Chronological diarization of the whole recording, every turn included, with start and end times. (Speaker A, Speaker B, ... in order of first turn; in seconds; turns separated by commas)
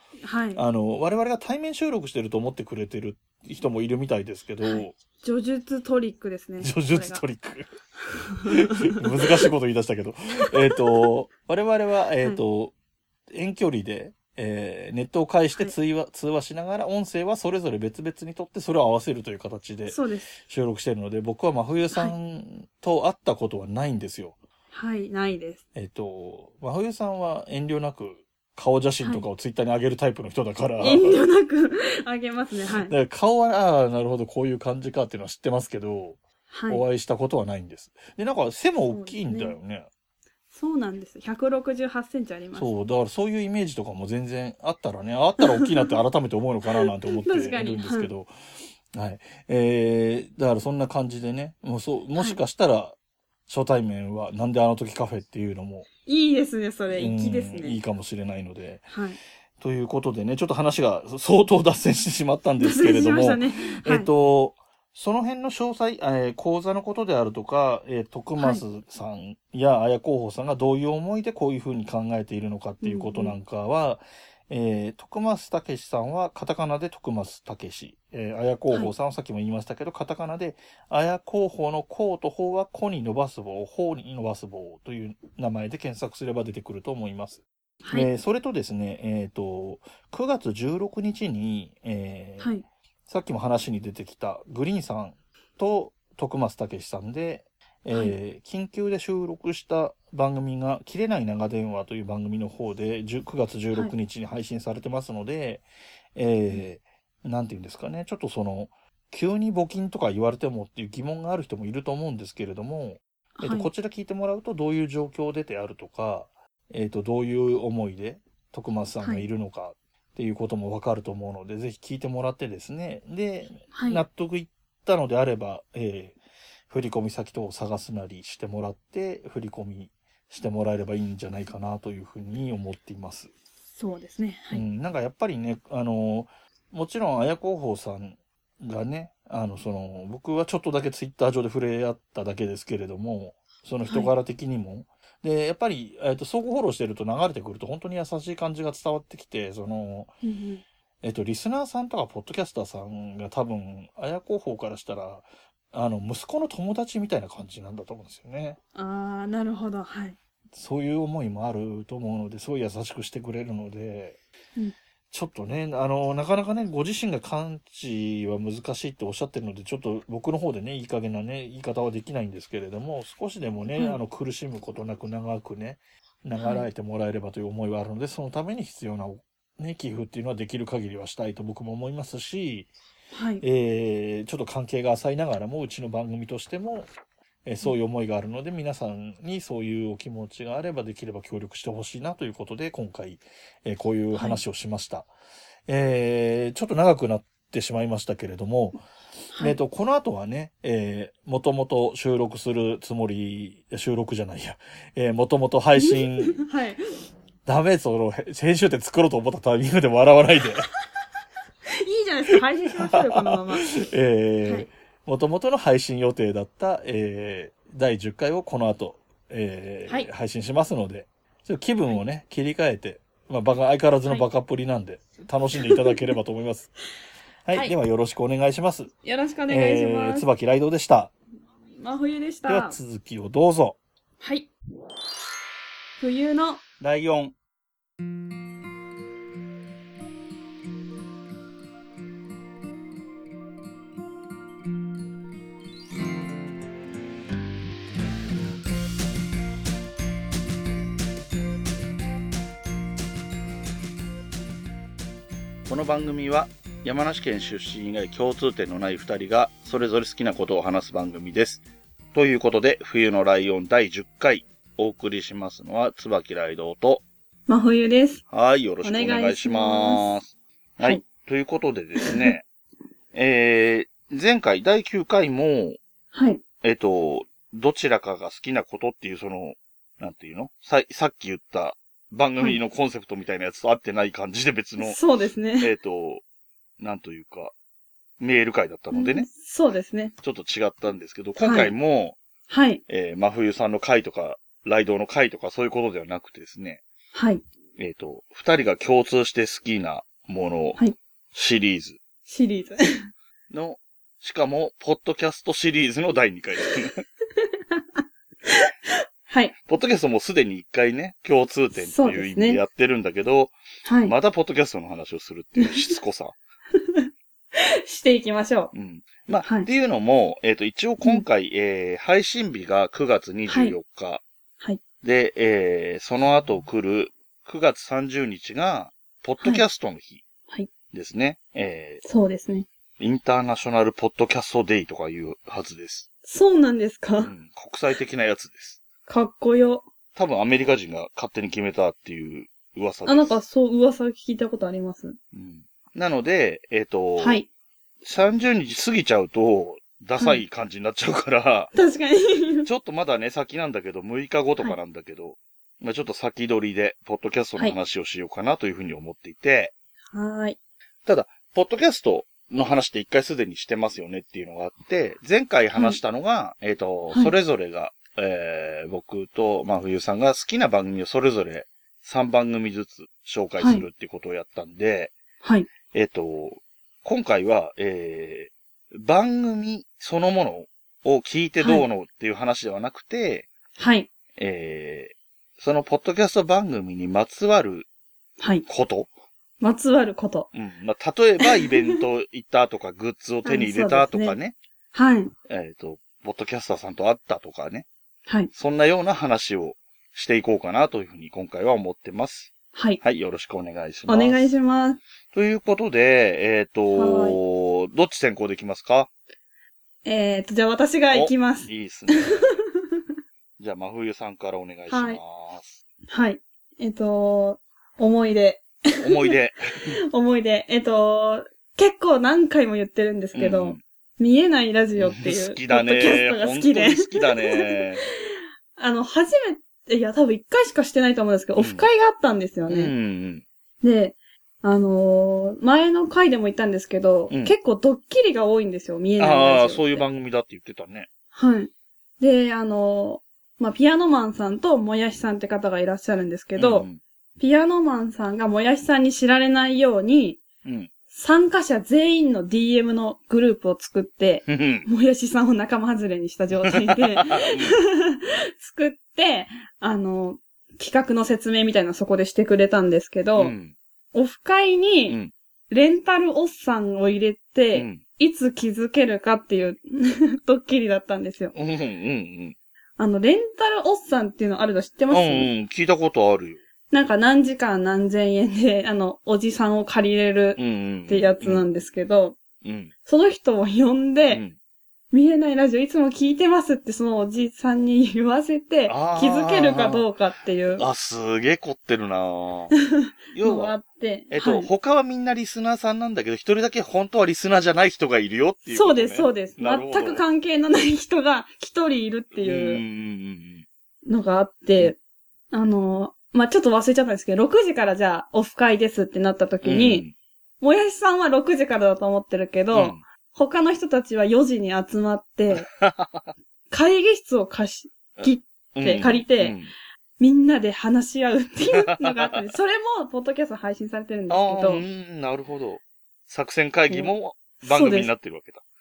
Speaker A: 0.2-0.6, Speaker B: 0.6-5.0, Speaker A: 4.6-7.2, Speaker B: 6.6-7.7, Speaker A: 8.1-9.5, Speaker B: 8.4-12.7, Speaker A: 10.5-10.8, Speaker B: 13.3-24.4, Speaker A: 19.9-20.3, Speaker A: 24.7-25.6, Speaker B: 25.8-31.2, Speaker A: 30.8-32.9, Speaker B: 32.8-39.9, Speaker A: 36.5-36.9, Speaker A: 38.9-39.6, Speaker A: 40.5-42.7, Speaker B: 42.5-48.3, Speaker A: 47.2-48.1, Speaker B: 48.9-53.0, Speaker B: 53.5-55.9, Speaker A: 56.1-57.8, Speaker B: 56.9-58.9, Speaker A: 58.9-59.2, Speaker B: 59.6-92.5, Speaker A: 62.6-64.1, Speaker A: 68.4-68.6, Speaker A: 72.8-73.3, Speaker A: 87.8-88.1, Speaker A: 92.4-92.7, Speaker B: 93.1-105.6, Speaker B: 106.2-126.2, Speaker A: 113.4-113.7, Speaker A: 123.7-124.0, Speaker B: 126.7-133.3, Speaker A: 133.8-134.6, Speaker B: 134.5-150.1, Speaker A: 150.2-150.6, Speaker B: 151.0-158.6, Speaker A: 158.8-160.2, Speaker B: 160.5-164.2, Speaker B: 165.1-182.7, Speaker A: 176.4-176.7, Speaker A: 183.1-183.4, Speaker B: 183.4-186.9, Speaker B: 187.4-195.1, Speaker A: 194.1-194.4, Speaker B: 195.7-198.8, Speaker A: 199.3-199.6, Speaker B: 199.4-206.4, Speaker A: 205.8-206.8, Speaker B: 207.5-210.7, Speaker A: 211.7-213.7, Speaker B: 212.8-226.7, Speaker B: 227.5-228.9, Speaker A: 229.0-230.3, Speaker B: 229.5-231.1, Speaker A: 231.8-232.8, Speaker B: 232.5-233.8, Speaker A: 234.2-234.5, Speaker A: 236.0-236.6, Speaker B: 236.8-237.3, Speaker B: 255.7-261.6, Speaker B: 262.1-267.1, Speaker A: 267.5-268.2, Speaker B: 268.3-272.5, Speaker A: 268.8-270.1, Speaker A: 272.0-272.4, Speaker B: 273.1-275.8, Speaker A: 276.1-276.4, Speaker B: 276.6-285.0, Speaker A: 284.8-285.7, Speaker B: 285.6-286.2, Speaker B: 286.8-287.5, Speaker B: 288.2-289.3, Speaker A: 288.9-290.1, Speaker B: 290.2-292.2, Speaker A: 291.4-291.7, Speaker A: 292.5-292.8, Speaker B: 292.9-296.8, Speaker A: 297.1-297.4, Speaker B: 297.8-300.8, Speaker B: 301.3-302.0, Speaker A: 302.3-303.1, Speaker B: 303.5-307.1, Speaker A: 307.4-307.8, Speaker A: 308.5-309.5, Speaker B: 309.6-316.4, Speaker A: 311.8-312.6, Speaker A: 313.9-314.1, Speaker A: 316.7-318.7, Speaker B: 318.7-324.2, Speaker A: 323.5-323.8, Speaker B: 325.0-330.2, Speaker B: 330.9-332.0, Speaker A: 332.0-332.7, Speaker B: 333.0-336.1, Speaker A: 336.2-337.3, Speaker B: 337.2-338.8, Speaker A: 339.1-339.9, Speaker B: 340.1-343.4, Speaker A: 343.1-345.2, Speaker B: 345.3-347.4, Speaker A: 347.2-347.5, Speaker B: 348.0-351.7, Speaker A: 350.2-350.4, Speaker A: 351.7-352.7, Speaker B: 352.6-359.7, Speaker A: 360.1-360.6, Speaker B: 361.1-375.1, Speaker A: 373.6-373.9, Speaker A: 375.4-375.7, Speaker B: 375.9-383.5, Speaker A: 383.8-384.1, Speaker B: 384.4-387.9, Speaker A: 388.4-388.6, Speaker B: 388.7-389.1, Speaker A: 389.6-390.5, Speaker B: 390.5-394.6, Speaker A: 393.4-394.4, Speaker A: 394.9-395.3, Speaker B: 395.5-397.9, Speaker B: 398.5-404.5, Speaker A: 402.7-403.0, Speaker A: 404.1-405.0, Speaker B: 405.3-409.1, Speaker A: 406.9-407.4, Speaker A: 410.1-413.0, Speaker B: 411.1-412.6, Speaker B: 413.6-415.8, Speaker A: 414.9-415.2, Speaker A: 416.1-419.3, Speaker B: 419.0-420.0, Speaker A: 420.1-427.8, Speaker B: 423.4-423.8, Speaker B: 425.0-428.0, Speaker A: 428.8-432.9, Speaker B: 431.6-431.9, Speaker B: 432.7-433.4, Speaker A: 433.8-440.1, Speaker B: 437.3-437.6, Speaker B: 439.2-441.1, Speaker A: 441.3-446.9, Speaker B: 446.6-447.0, Speaker A: 447.4-450.4, Speaker B: 450.6-450.9, Speaker A: 451.1-463.6, Speaker B: 454.5-454.9, Speaker B: 456.6-457.8, Speaker B: 463.4-463.8, Speaker A: 464.1-465.2, Speaker A: 465.7-471.5, Speaker B: 467.7-468.0, Speaker B: 471.6-472.6, Speaker A: 473.0-475.5, Speaker B: 475.1-476.6, Speaker A: 476.9-482.4, Speaker B: 480.6-481.6, Speaker B: 482.6-482.9, Speaker A: 483.1-484.4, Speaker B: 484.3-484.6, Speaker A: 485.1-490.9, Speaker B: 488.9-490.1, Speaker B: 490.8-492.8, Speaker A: 492.9-494.7, Speaker B: 493.3-493.8, Speaker B: 494.3-500.2, Speaker A: 498.7-502.8, Speaker B: 502.4-503.7, Speaker A: 504.1-505.0, Speaker A: 505.5-510.1, Speaker B: 509.6-510.1, Speaker A: 510.6-515.7, Speaker B: 512.7-513.0, Speaker B: 515.5-516.3, Speaker A: 516.7-519.6, Speaker B: 518.2-519.7, Speaker A: 520.2-524.8, Speaker B: 521.7-522.4, Speaker B: 524.3-528.6, Speaker A: 526.9-528.1